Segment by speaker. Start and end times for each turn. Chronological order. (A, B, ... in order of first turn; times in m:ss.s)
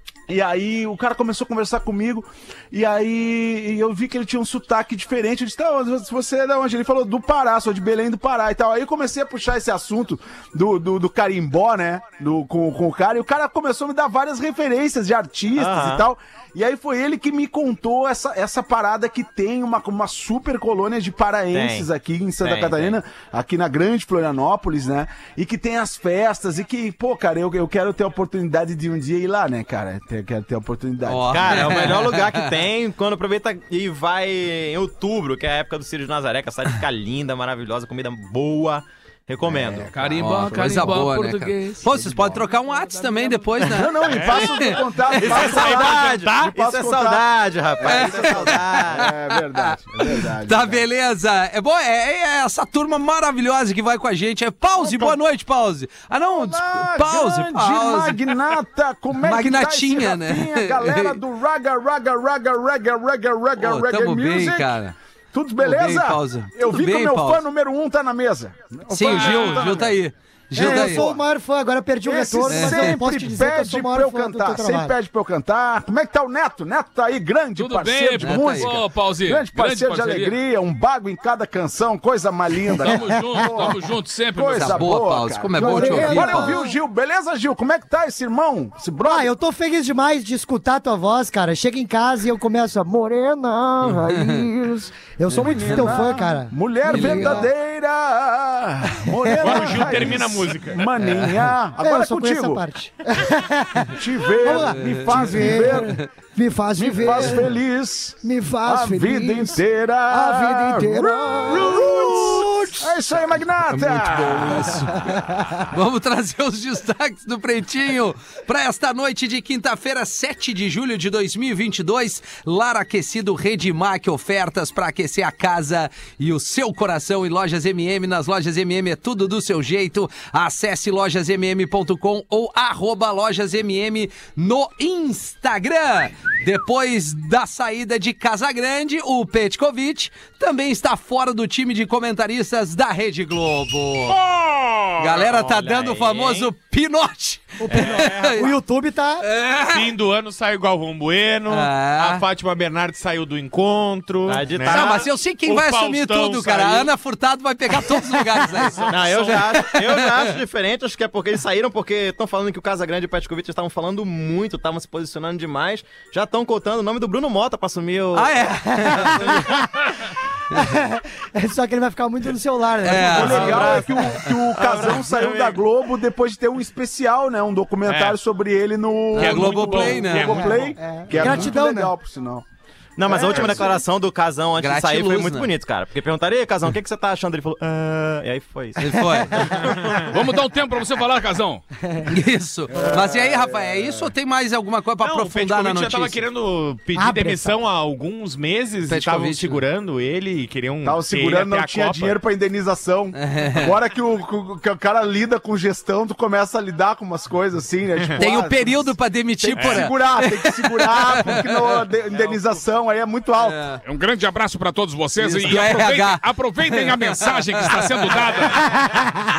0:00.3-0:32.0 A
0:15.5-0:16.0 B
0:21.5-0:21.9 B
0:22.4-0:23.0 B
0:31.0-0:32.6 C
0:31.3-0:39.9 B
0:39.4-0:41.1 A
0:39.9-0:43.7 D
0:40.2-0:45.1 C
0:41.8-0:42.5 A
0:43.6-0:50.8 A
0:44.0-0:46.5 E
0:45.1-0:49.1 B
0:47.8-0:58.5 C
0:54.8-0:55.2 A
0:56.3-1:04.8 A
0:59.2-1:01.2 C
1:03.6-1:04.9 C
1:05.3-1:09.9 A
1:05.6-1:07.4 C
1:08.9-1:11.0 C
1:09.0-1:09.9 D
1:10.5-1:14.9 F
1:10.6-1:11.2 A
1:12.0-1:23.8 A
1:12.5-1:13.0 C
1:17.6-1:20.4 D
1:18.2-1:18.7 C
1:22.8-1:24.8 D
1:24.3-1:29.3 A
1:24.5-1:26.6 C
1:25.5-1:26.8 F
1:29.0-1:37.5 F
1:33.9-1:34.4 C
1:35.3-1:42.6 A
1:35.4-1:36.1 C
1:36.9-1:37.5 C
1:39.4-1:40.9 E
1:41.0-1:41.3 C
1:41.8-1:47.5 F
1:43.9-1:46.0 A
1:44.5-1:45.7 C
1:46.8-1:54.8 A
1:48.2-1:52.9 F
1:53.7-2:24.2 C
1:54.9-1:55.6 F
2:24.1-2:25.0 D
2:25.0-2:28.5 C
2:25.1-2:26.5 B
2:27.6-2:29.2 F
2:27.7-2:28.1 B
2:27.7-2:28.4 E
2:29.2-2:29.9 C
2:29.7-2:36.9 E
2:31.5-2:32.2 C
2:34.2-2:35.1 B
2:34.7-2:40.2 C
2:38.8-2:49.4 B
2:48.1-2:49.5 C
2:48.7-2:49.7 F
2:50.5-2:54.1 F
2:52.8-2:54.4 C
2:52.9-3:02.4 A
2:53.2-2:54.0 B
2:54.5-2:55.6 B
2:57.8-2:58.2 E
2:59.1-3:00.6 C
2:59.1-3:01.5 E
3:00.2-3:01.9 F
3:03.0-3:10.2 B
3:03.0-3:03.8 A
3:04.6-3:05.5 C
3:08.8-3:09.6 C
3:10.1-3:11.6 D
3:12.1-3:16.2 C
3:12.7-3:14.1 A
3:15.0-3:22.2 E
3:16.9-3:17.5 F
3:18.9-3:19.6 C
3:20.8-3:33.6 A
3:23.1-3:23.8 C
3:28.2-3:31.7 C
3:29.5-3:29.9 E
3:32.1-3:32.4 B
3:33.4-3:33.8 C
3:33.8-3:38.8 D
3:35.2-3:38.8 C